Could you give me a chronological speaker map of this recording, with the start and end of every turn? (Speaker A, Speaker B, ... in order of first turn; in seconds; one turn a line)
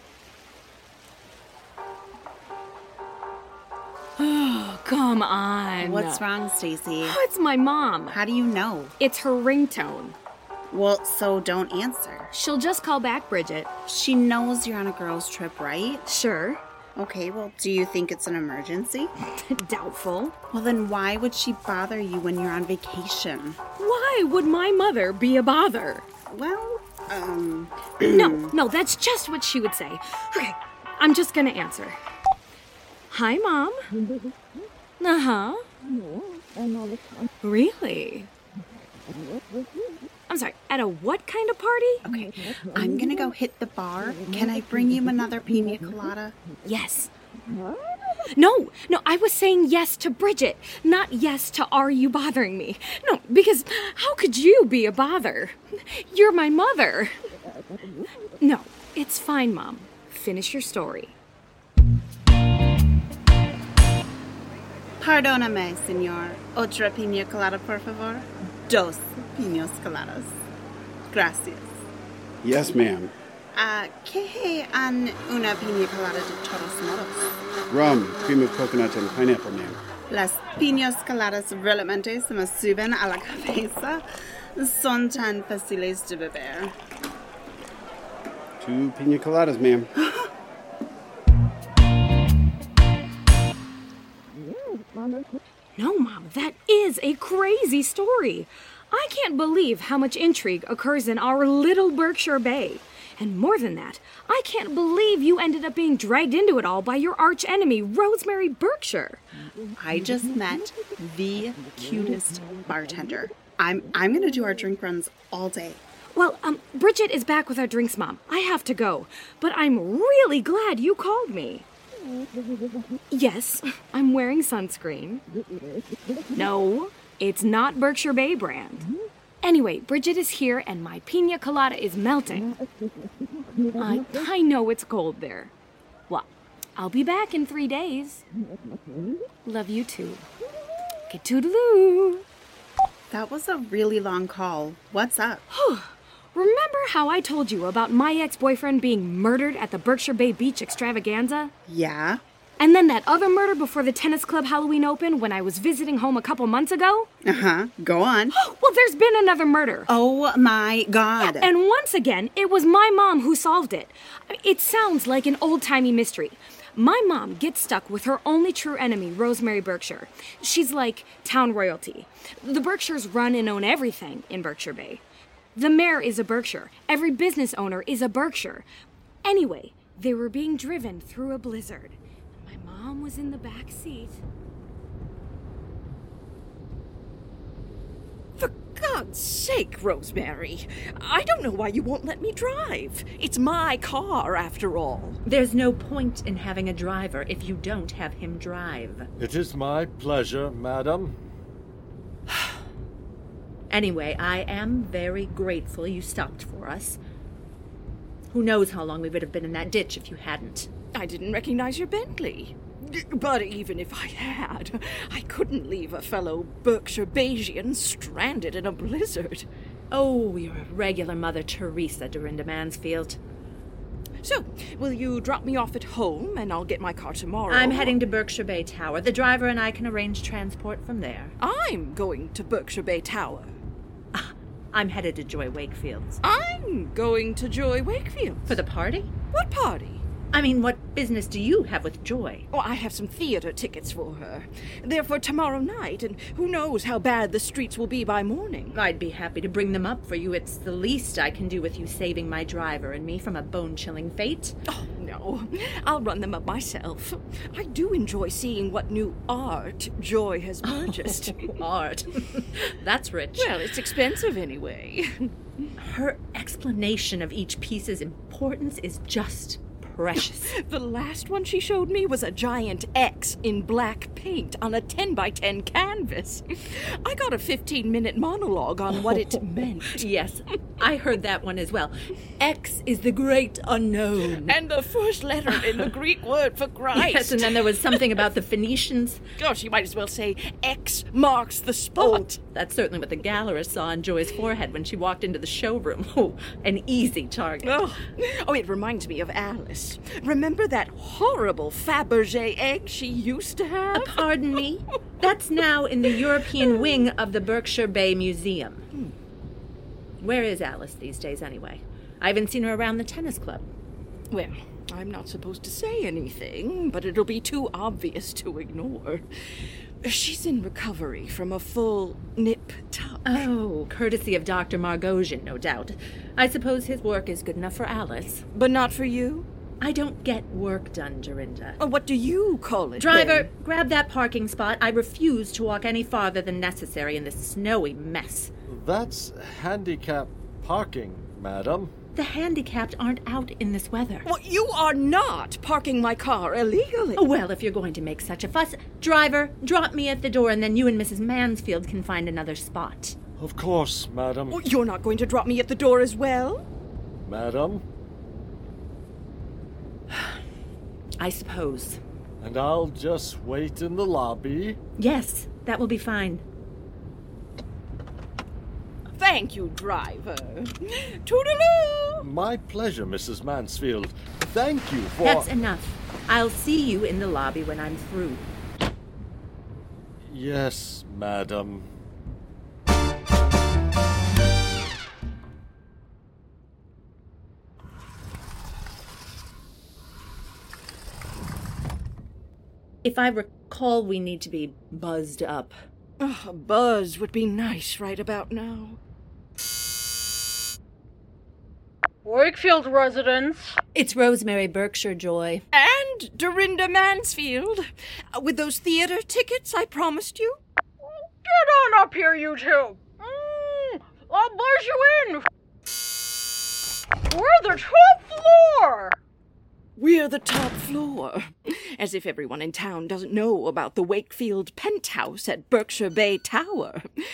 Speaker A: 4.2-6.2
Speaker B: 5.8-7.2
Speaker A: 7.0-8.2
Speaker B: 8.1-8.9
Speaker A: 9.0-10.2
Speaker B: 10.7-12.3
Speaker A: 12.3-13.7
Speaker B: 13.9-16.0
Speaker A: 16.1-16.6
Speaker B: 17.0-19.1
Speaker A: 19.4-20.4
Speaker B: 20.5-23.6
Speaker A: 23.8-26.1
Speaker B: 26.3-28.5
Speaker A: 28.1-32.0
Speaker A: 33.1-33.8
Speaker A: 35.0-35.7
Speaker A: 37.4-38.3
Speaker A: 40.3-42.0
Speaker B: 42.0-46.4
Speaker A: 46.6-47.1
Speaker A: 48.3-57.1
Speaker A: 58.4-61.2
Speaker B: 65.0-70.3
Speaker B: 71.1-71.8
Speaker C: 72.4-73.1
Speaker B: 73.5-77.3
Speaker C: 77.7-79.8
Speaker B: 80.1-84.0
Speaker B: 84.6-86.8
Speaker C: 88.6-89.9
Speaker B: 90.0-90.3
Speaker A: 95.8-109.2
Speaker B: 109.8-115.8
Speaker A: 116.2-121.7
Speaker A: 123.1-125.2
Speaker A: 126.3-128.9
Speaker A: 129.4-132.5
Speaker A: 133.8-135.5
Speaker A: 136.1-138.2
Speaker A: 139.4-140.3
Speaker A: 141.1-142.2
Speaker B: 143.1-145.4
Speaker A: 145.5-151.5
Speaker B: 151.7-152.2
Speaker A: 152.6-157.1
Speaker B: 157.2-158.3
Speaker A: 158.3-159.9
Speaker B: 159.9-161.5
Speaker A: 161.2-175.0
Speaker A: 175.6-178.7
Speaker A: 179.2-184.2
Speaker D: 188.4-195.2
Speaker E: 195.2-199.1
Speaker F: 199.2-201.2
Speaker E: 203.7-207.0
Speaker E: 208.3-210.7
Speaker D: 210.9-219.5
Speaker E: 219.9-223.2
Speaker D: 224.2-228.0
Speaker E: 227.5-231.3
Speaker D: 231.4-233.6
Speaker E: 234.1-236.2
Speaker D: 236.2-238.6
Speaker E: 238.5-239.1
Speaker D: 239.3-240.1
Speaker E: 240.3-242.5
Speaker D: 242.5-248.8
Speaker E: 248.7-254.6
Speaker D: 254.7-261.6
Speaker E: 260.7-263.6
Speaker D: 263.4-265.7
Speaker E: 265.8-270.6
Speaker D: 270.4-280.1
Speaker E: 279.8-284.6
Speaker D: 284.4-288.0
Speaker E: 286.9-289.2
Speaker D: 289.4-292.4
Speaker E: 292.0-297.8
Speaker D: 297.6-304.7
Speaker E: 303.9-308.9
Speaker D: 306.1-307.1
Speaker E: 310.2-313.7
Speaker D: 314.3-319.3
Speaker D: 320.0-323.4
Speaker E: 323.2-328.4
Speaker D: 328.5-329.5
Speaker E: 329.8-331.8
Speaker D: 331.8-333.5
Speaker E: 333.0-338.5
Speaker F: 338.7-341.9
Speaker E: 342.1-344.3
Speaker D: 344.2-347.3
Speaker E: 347.2-353.2
Speaker F: 353.4-354.6
Speaker D: 354.5-356.7
Speaker F: 357.2-357.8
Speaker E: 361.2-362.0
Speaker F: 362.4-364.8
Speaker E: 365.0-366.4
Speaker D: 369.1-372.3
Speaker F: 372.2-375.5
Speaker E: 375.2-378.5
Speaker F: 380.2-381.9
Speaker E: 393.0-395.8
Speaker D: 396.2-399.0
Speaker G: 402.2-403.7
Speaker E: 403.9-405.6
Speaker D: 405.7-410.6
Speaker G: 411.0-415.5
Speaker G: 417.3-419.2
Speaker D: 420.0-427.1